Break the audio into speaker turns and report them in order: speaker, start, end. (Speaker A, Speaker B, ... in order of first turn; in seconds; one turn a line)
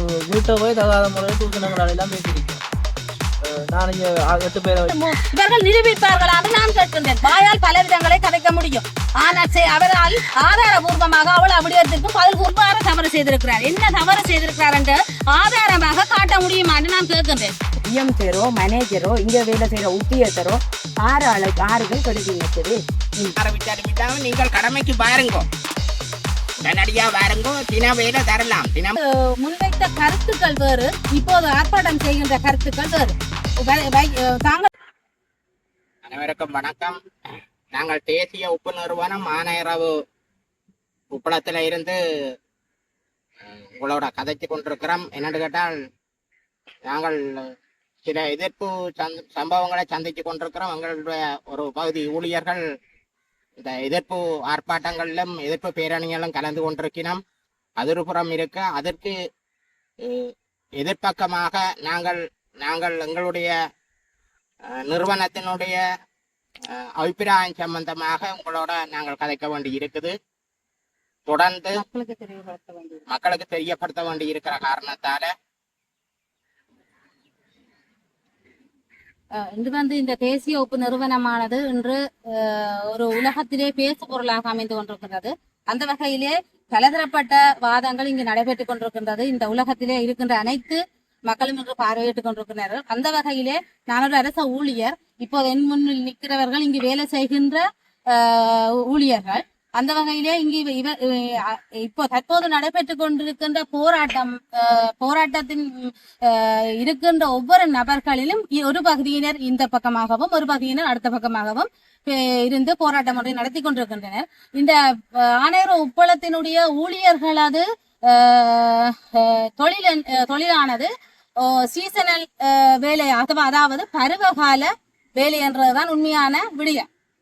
Speaker A: 0.3-2.6
Speaker A: 3.4-4.9
Speaker B: 4.9-17.5
Speaker C: 17.9-23.3
Speaker D: 23.4-25.5
Speaker D: 26.6-28.9
Speaker B: 29.0-34.7
Speaker D: 36.0-37.0
Speaker D: 37.7-39.9
Speaker D: 41.1-42.0
Speaker D: 43.5-45.7
Speaker D: 46.9-47.4
Speaker D: 48.0-52.6
Speaker D: 53.6-57.2
Speaker D: 57.8-59.1
Speaker D: 60.0-63.5
Speaker D: 64.8-65.8
Speaker D: 66.7-70.1
Speaker D: 71.3-71.8
Speaker B: 71.8-73.0
Speaker D: 73.1-75.3
Speaker B: 79.4-126.9